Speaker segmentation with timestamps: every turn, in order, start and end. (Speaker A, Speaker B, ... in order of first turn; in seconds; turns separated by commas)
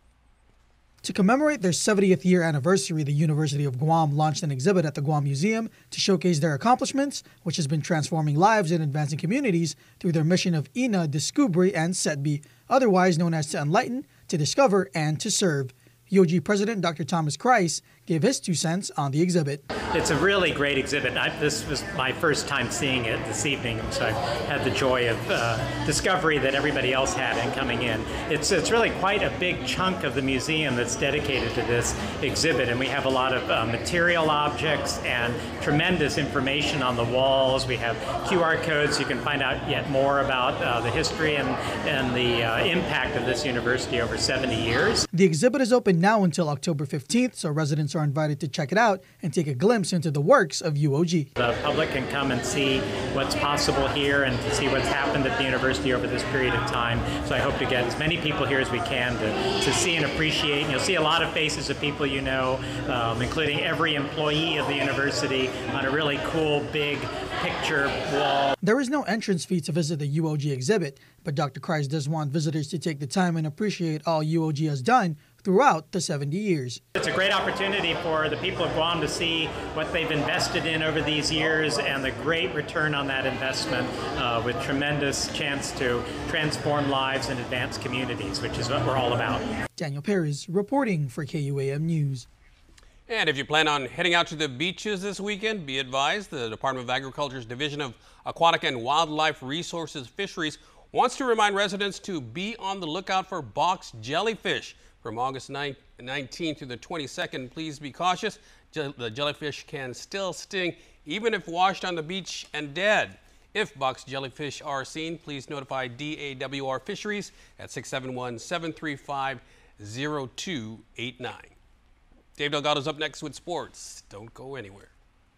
Speaker A: 1.0-19.6, Speaker B: 19.9-45.0, Speaker A: 45.1-51.3, Speaker B: 51.3-68.5, Speaker A: 68.6-76.8, Speaker B: 76.9-89.5, Speaker A: 89.8-92.2, Speaker C: 93.1-121.5, Speaker C: 122.4-124.9